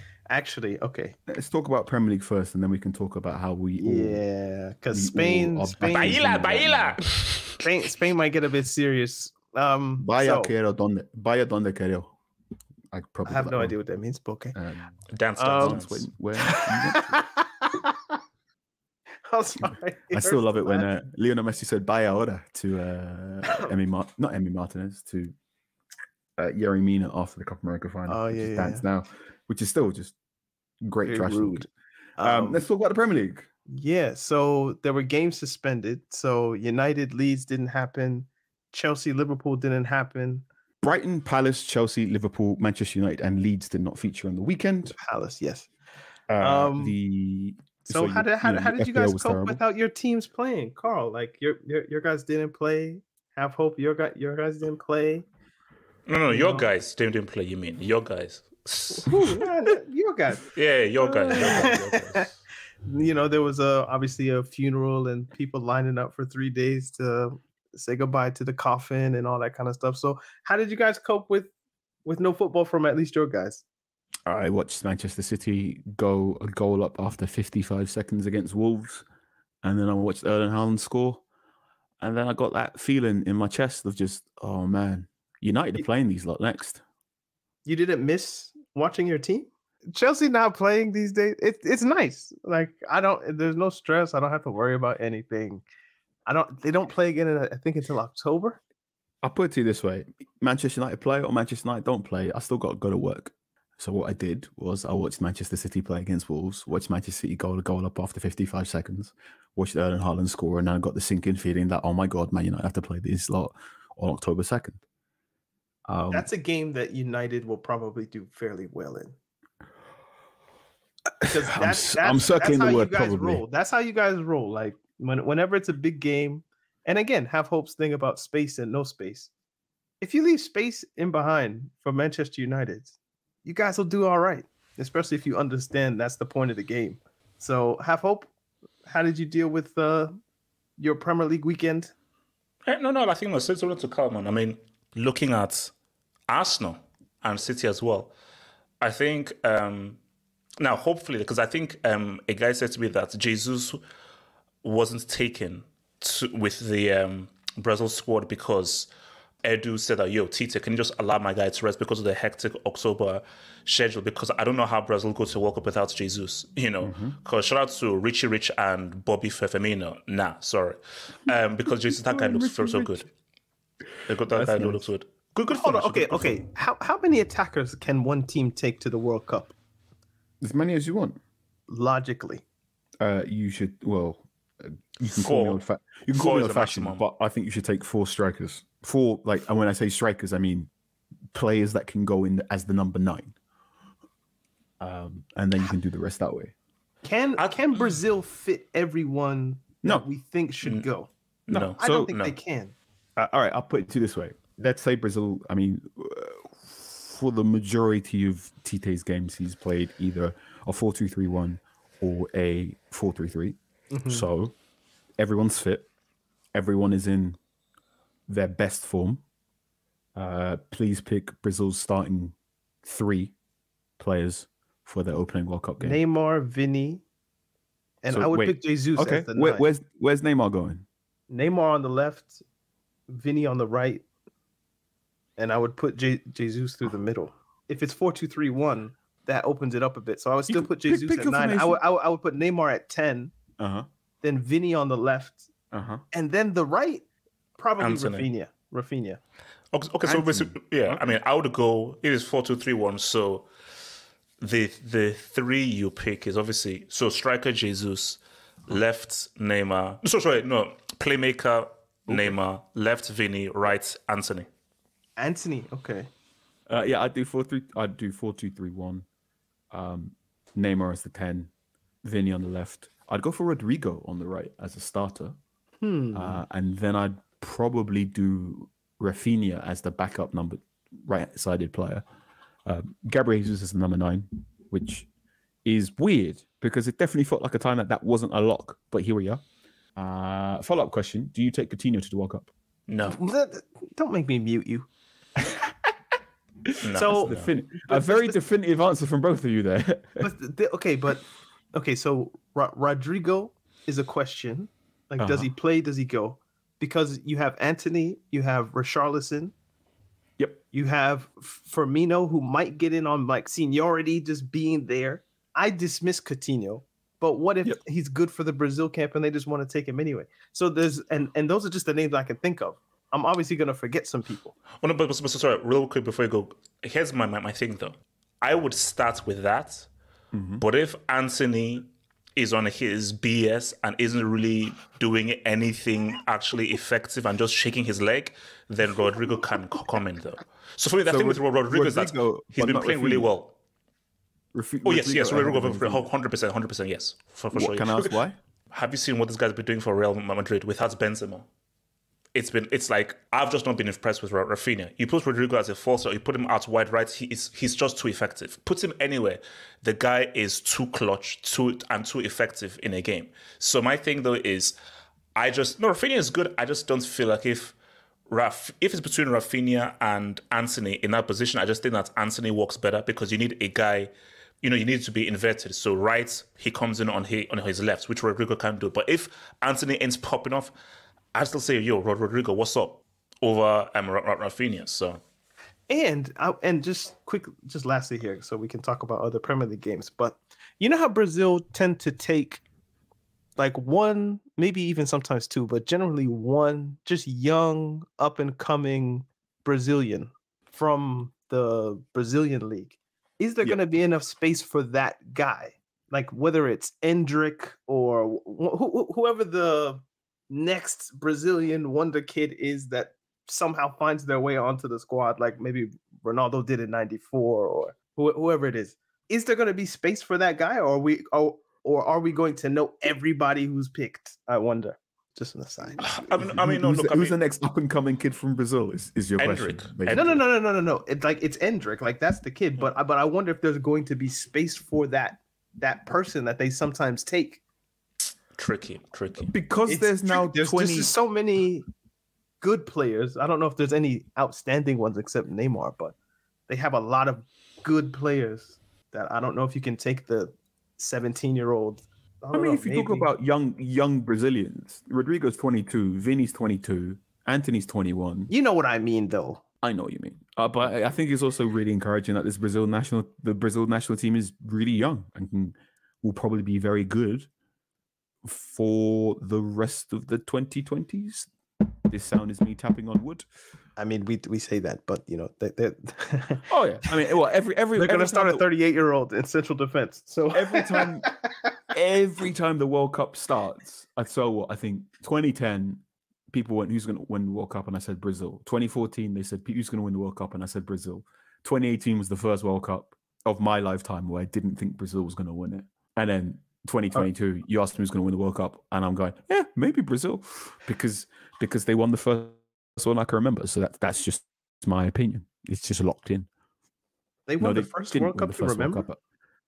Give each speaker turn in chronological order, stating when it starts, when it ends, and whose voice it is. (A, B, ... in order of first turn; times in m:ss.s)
0:00.3-0:01.1 A
0:01.3-0:04.2 B
0:03.8-0:06.2 A
0:04.9-0:07.0 B
0:05.9-0:07.6 C
0:07.6-0:10.5 A
0:10.0-0:12.1 B
0:12.9-0:13.8 B
0:13.2-0:14.6 A
0:14.5-0:17.2 B
0:15.1-0:16.1 C
0:15.4-0:15.8 A
0:16.5-0:18.2 A
0:19.2-0:20.9 A
0:20.1-0:25.3 B
0:26.4-0:30.1 B
0:28.1-0:28.8 A
0:30.8-0:31.7 B
0:31.0-0:31.7 A
0:32.2-0:32.6 A
0:32.2-0:33.5 B
0:33.7-0:40.4 A
0:40.8-0:45.0 B
0:45.0-0:45.7 A
0:46.3-0:49.6 B
0:46.4-0:47.0 A
0:47.9-0:55.2 A
0:56.1-0:59.2 C
0:56.3-0:56.7 A
0:59.0-1:00.4 A
1:00.5-1:02.3 C
1:01.0-1:01.7 B
1:01.3-1:02.2 A
1:02.8-1:11.5 A
1:12.0-1:13.6 A
1:14.2-1:19.0 B
1:19.6-1:21.2 B
1:22.0-1:26.8 B
1:27.6-1:35.6 A
1:36.2-1:38.6 A
1:39.2-1:54.8 B
1:55.9-1:56.3 B
1:56.1-1:59.2 A
2:01.2-2:03.4 B
2:01.2-2:09.3 A
2:10.0-2:12.9 A
2:13.4-2:18.3 A
2:18.9-2:20.2 A
2:20.8-2:21.9 A
2:22.7-2:25.7 C
2:26.3-2:28.1 C
2:28.8-2:30.0 C
2:30.6-2:33.8 C
2:34.6-2:38.9 C
2:39.4-2:53.0 C
2:46.8-2:47.2 B
2:51.9-2:53.1 B
2:54.1-2:56.4 C
2:54.3-2:54.9 B
2:55.5-2:59.5 A
3:00.4-3:01.2 B
3:01.7-3:02.4 A
3:03.0-3:10.7 B
3:05.1-3:05.6 C
3:06.1-3:07.0 C
3:11.3-3:13.3 B
3:14.8-3:16.5 B
3:17.0-3:21.1 A
3:17.4-3:17.8 C
3:21.5-3:22.3 C
3:21.5-3:22.1 B
3:21.8-3:22.7 A
3:23.2-3:34.5 B
3:33.9-3:34.2 A
3:35.2-3:35.9 B
3:36.5-3:37.4 B
3:38.3-3:39.2 B
3:40.2-3:43.3 B
3:44.0-3:46.0 B
3:45.8-3:47.0 A
3:48.0-3:49.6 A
3:48.1-3:50.8 B
3:51.3-3:52.4 A
3:53.1-3:54.0 A
3:55.4-4:03.3 A
4:00.5-4:01.8 B
4:03.6-4:03.9 B
4:04.2-4:05.5 A
4:05.7-4:06.0 B
4:06.1-4:07.0 A
4:07.6-4:09.2 A
4:07.8-4:08.3 C
4:09.7-4:13.5 C
4:10.0-4:11.1 B
4:14.4-4:24.5 C
4:22.1-4:22.4 B
4:25.2-4:26.1 A
4:26.7-4:29.0 B
4:29.7-4:31.5 B
4:32.0-4:35.4 B
4:35.8-4:36.4 A
4:36.1-4:42.0 B
4:42.6-4:45.1 B
4:45.6-4:49.4 B
4:50.0-4:52.5 B
4:52.9-4:53.2 C
4:53.1-4:54.9 A
4:55.4-4:55.9 B
4:56.7-5:00.3 B
4:56.8-4:57.5 C
4:56.9-4:58.4 A
5:00.2-5:09.5 A
5:05.2-5:05.5 B
5:10.7-5:24.5 A
5:24.8-5:29.9 C
5:30.3-5:30.6 B
5:30.6-5:43.5 C
5:41.0-5:43.3 B
5:44.5-5:46.0 B
5:44.8-5:48.1 C
5:47.5-5:48.4 B
5:48.7-5:51.4 C
5:52.3-6:04.8 C
6:05.4-6:07.8 C
6:08.3-6:20.7 C
6:21.3-6:25.2 C
6:25.9-6:32.6 A
6:33.6-7:06.0 A
7:06.0-7:07.3 C
7:06.4-7:10.4 B
7:09.4-7:10.3 C
7:10.1-7:17.6 A
7:18.6-7:19.5 C
7:19.4-7:21.1 B
7:19.8-7:21.8 A
7:22.6-7:26.1 A
7:26.7-7:33.3 A
7:32.5-7:38.5 B
7:38.5-7:39.6 A
7:39.8-7:47.5 B
7:48.4-7:51.5 B
7:52.1-7:53.4 B
7:54.0-7:56.6 A
7:56.7-7:58.6 B
7:58.0-8:01.3 A
8:00.5-8:01.3 B
8:01.9-8:26.5 B
8:27.5-8:29.0 A
8:27.6-8:29.2 B